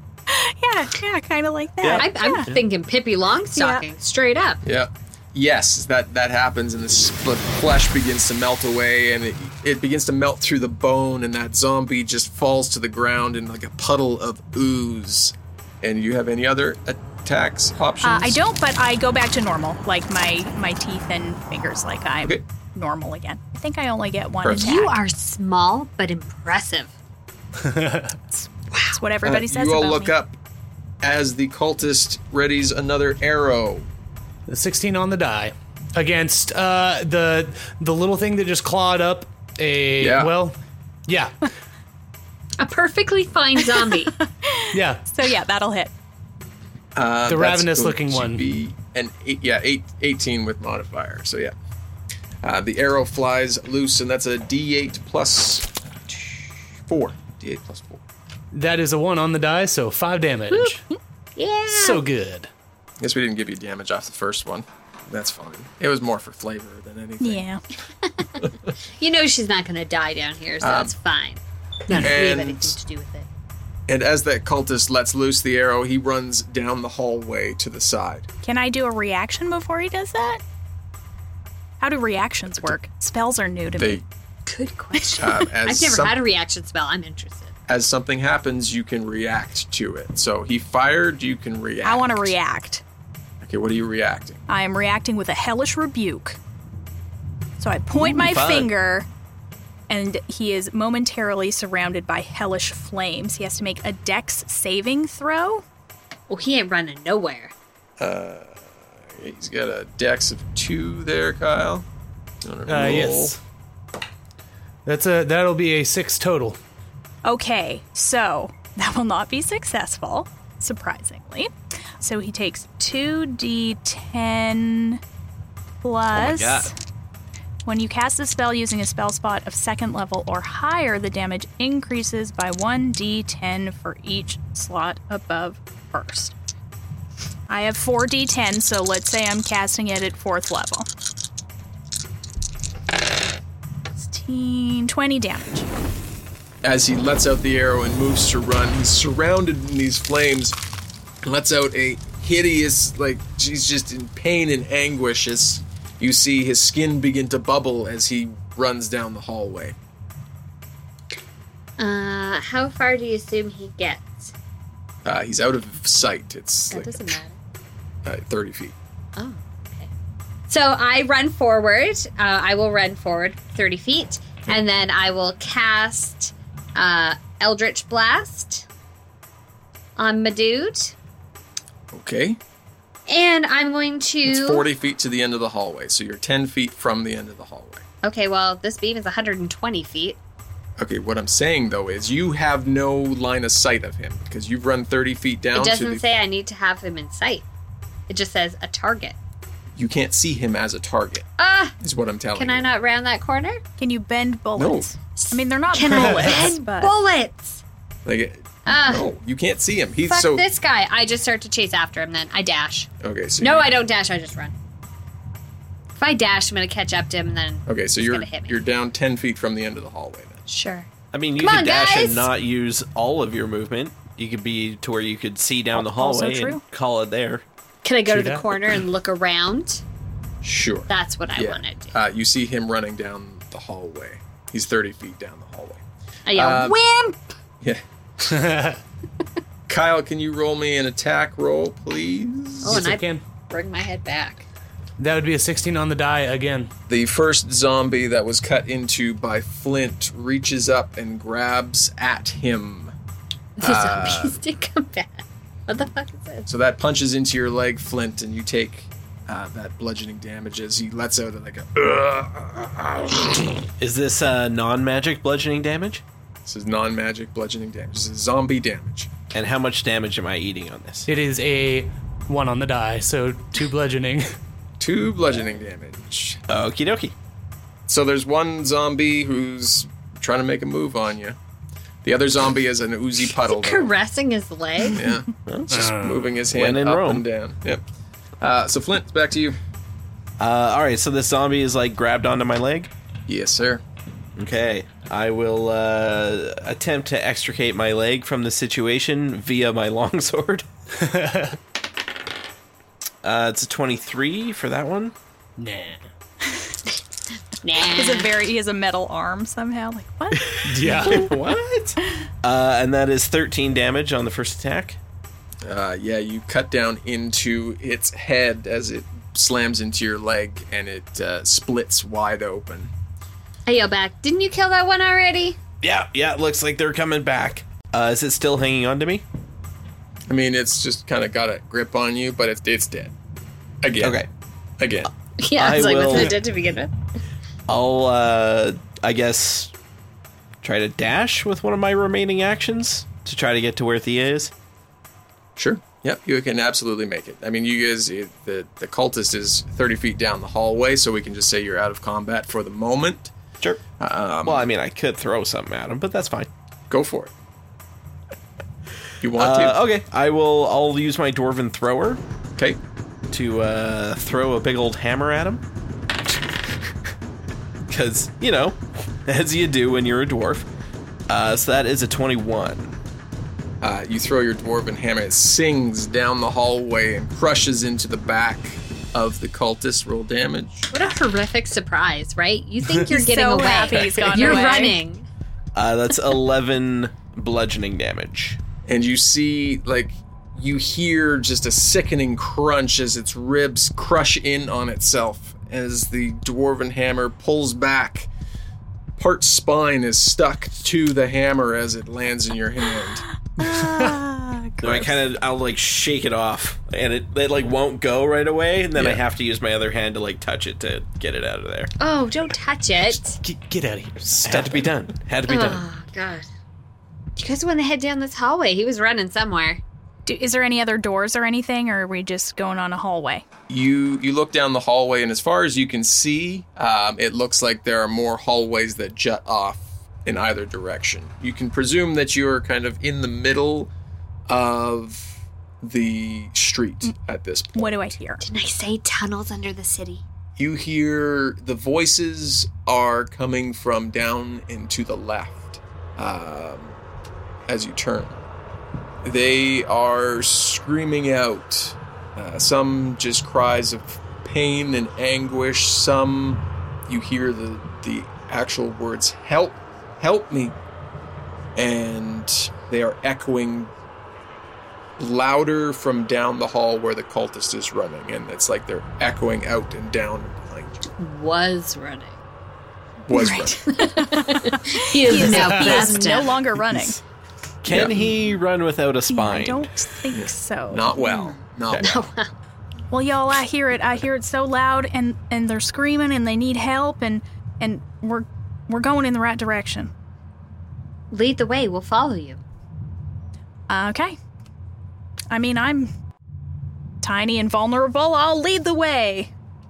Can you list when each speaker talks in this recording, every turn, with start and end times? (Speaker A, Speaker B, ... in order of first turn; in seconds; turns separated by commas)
Speaker A: 0.3-2.5, Speaker B: 1.8-2.6, Speaker C: 1.9-4.6, Speaker A: 3.5-3.8, Speaker D: 4.6-18.4, Speaker A: 18.0-25.0, Speaker D: 24.4-24.7, Speaker C: 24.5-26.9, Speaker E: 27.6-28.1, Speaker A: 28.3-30.1, Speaker D: 29.2-30.4, Speaker D: 31.0-33.9, Speaker E: 34.5-40.6, Speaker D: 40.0-40.3, Speaker E: 41.1-41.3, Speaker C: 42.6-44.1, Speaker A: 43.7-45.9, Speaker E: 44.7-45.0, Speaker D: 46.9-51.5, Speaker E: 47.3-48.5, Speaker D: 52.4-58.0, Speaker E: 58.5-60.8, Speaker C: 61.4-62.0, Speaker E: 61.7-62.5, Speaker D: 63.0-67.5, Speaker A: 67.2-67.6, Speaker C: 69.0-73.3, Speaker D: 70.6-70.9, Speaker D: 71.9-72.8, Speaker D: 73.9-78.3, Speaker A: 78.4-80.4, Speaker A: 81.8-84.0, Speaker D: 83.8-84.0, Speaker C: 84.5-87.5, Speaker A: 84.9-85.2, Speaker D: 85.2-86.2, Speaker D: 87.7-92.3, Speaker A: 91.8-92.8, Speaker D: 93.4-94.4, Speaker A: 94.5-96.4, Speaker A: 97.6-99.1, Speaker B: 97.9-98.7, Speaker A: 99.9-105.6, Speaker C: 106.3-107.5, Speaker D: 108.0-111.8, Speaker D: 112.4-113.3, Speaker E: 112.7-113.4, Speaker E: 114.8-116.6, Speaker A: 117.2-125.0, Speaker A: 125.8-126.7, Speaker B: 126.1-126.7, Speaker A: 127.7-136.3, Speaker A: 137.5-140.9, Speaker A: 144.0-145.7, Speaker D: 146.6-150.6, Speaker D: 151.2-159.8, Speaker C: 161.8-164.3, Speaker D: 165.0-167.2, Speaker C: 166.7-167.4, Speaker D: 168.0-168.7, Speaker C: 169.2-169.9, Speaker C: 170.5-178.7, Speaker C: 180.0-180.9, Speaker D: 181.9-182.4, Speaker C: 183.1-184.7, Speaker D: 184.3-187.8, Speaker C: 188.0-190.2, Speaker D: 190.8-196.0, Speaker C: 195.5-197.4, Speaker C: 198.1-199.2, Speaker D: 199.8-201.3, Speaker C: 201.4-201.7, Speaker D: 201.8-202.7, Speaker C: 202.3-203.6, Speaker A: 203.8-206.9, Speaker D: 204.6-204.9, Speaker C: 205.2-207.6, Speaker E: 205.9-206.4, Speaker D: 208.1-210.4, Speaker C: 208.7-209.1, Speaker C: 210.1-214.5, Speaker D: 213.0-213.7, Speaker C: 215.9-218.6, Speaker D: 217.7-220.4, Speaker C: 220.5-220.9, Speaker B: 221.1-227.4, Speaker C: 221.4-222.3, Speaker A: 225.7-226.6, Speaker C: 227.8-229.8, Speaker E: 228.1-228.7, Speaker D: 230.4-235.8, Speaker C: 230.9-231.9, Speaker C: 236.2-237.2, Speaker D: 236.3-236.8, Speaker E: 238.3-238.8, Speaker D: 239.7-242.9, Speaker C: 242.6-244.4, Speaker E: 242.7-243.2, Speaker E: 245.0-246.7, Speaker D: 246.9-252.9, Speaker C: 253.6-256.4, Speaker D: 253.6-254.4, Speaker D: 256.4-263.6, Speaker B: 263.8-266.0, Speaker D: 266.4-269.1, Speaker B: 269.3-271.1, Speaker E: 271.1-274.3, Speaker D: 274.8-276.4, Speaker B: 276.5-277.1, Speaker D: 277.9-281.4, Speaker D: 282.0-283.9, Speaker C: 283.4-285.0, Speaker D: 284.9-287.8, Speaker B: 285.5-285.9, Speaker E: 285.7-286.2, Speaker B: 286.5-287.2, Speaker D: 288.4-289.6, Speaker B: 290.4-292.9, Speaker D: 293.3-293.8, Speaker B: 294.4-300.6, Speaker E: 301.0-301.6, Speaker B: 303.2-305.1, Speaker E: 305.6-306.1, Speaker C: 307.6-308.3, Speaker A: 307.9-310.5, Speaker B: 310.5-315.0, Speaker E: 310.6-311.3, Speaker D: 315.6-322.9, Speaker C: 323.7-325.6, Speaker B: 325.8-329.2, Speaker D: 330.3-333.1, Speaker D: 333.8-334.2, Speaker B: 334.0-334.3, Speaker D: 334.8-335.1, Speaker C: 335.4-336.9, Speaker B: 335.5-336.4, Speaker B: 337.7-339.7, Speaker B: 340.6-344.5, Speaker D: 345.6-353.3, Speaker D: 354.0-354.7, Speaker B: 354.4-356.5, Speaker D: 356.9-357.3, Speaker D: 359.2-359.8, Speaker B: 359.3-362.2, Speaker B: 363.3-365.6, Speaker B: 367.9-370.7, Speaker B: 371.3-372.9, Speaker D: 373.8-380.9, Speaker C: 380.9-385.2, Speaker A: 383.1-385.0, Speaker E: 383.9-384.7, Speaker B: 385.7-388.6, Speaker D: 388.9-398.3, Speaker D: 399.2-403.2, Speaker A: 403.6-405.2, Speaker E: 403.6-404.2, Speaker B: 404.8-411.9, Speaker C: 412.0-413.4, Speaker E: 413.3-414.9, Speaker B: 414.4-415.8, Speaker C: 415.5-416.4, Speaker C: 417.4-419.8, Speaker A: 420.2-423.4, Speaker D: 423.7-433.9, Speaker D: 434.5-438.1, Speaker A: 437.8-438.4, Speaker C: 438.4-440.2, Speaker D: 440.6-446.9, Speaker D: 447.7-448.4, Speaker D: 449.2-460.7, Speaker D: 461.8-463.9, Speaker D: 465.2-471.1, Speaker C: 471.2-472.4, Speaker D: 473.2-473.8, Speaker A: 473.3-477.2, Speaker C: 473.9-476.6, Speaker E: 475.3-476.2, Speaker B: 477.8-479.9, Speaker D: 477.9-478.4, Speaker A: 479.3-481.5, Speaker D: 480.3-482.2, Speaker C: 482.0-482.5, Speaker A: 483.1-490.1, Speaker C: 491.3-492.6, Speaker A: 493.9-494.4, Speaker A: 495.5-496.1, Speaker A: 497.2-499.5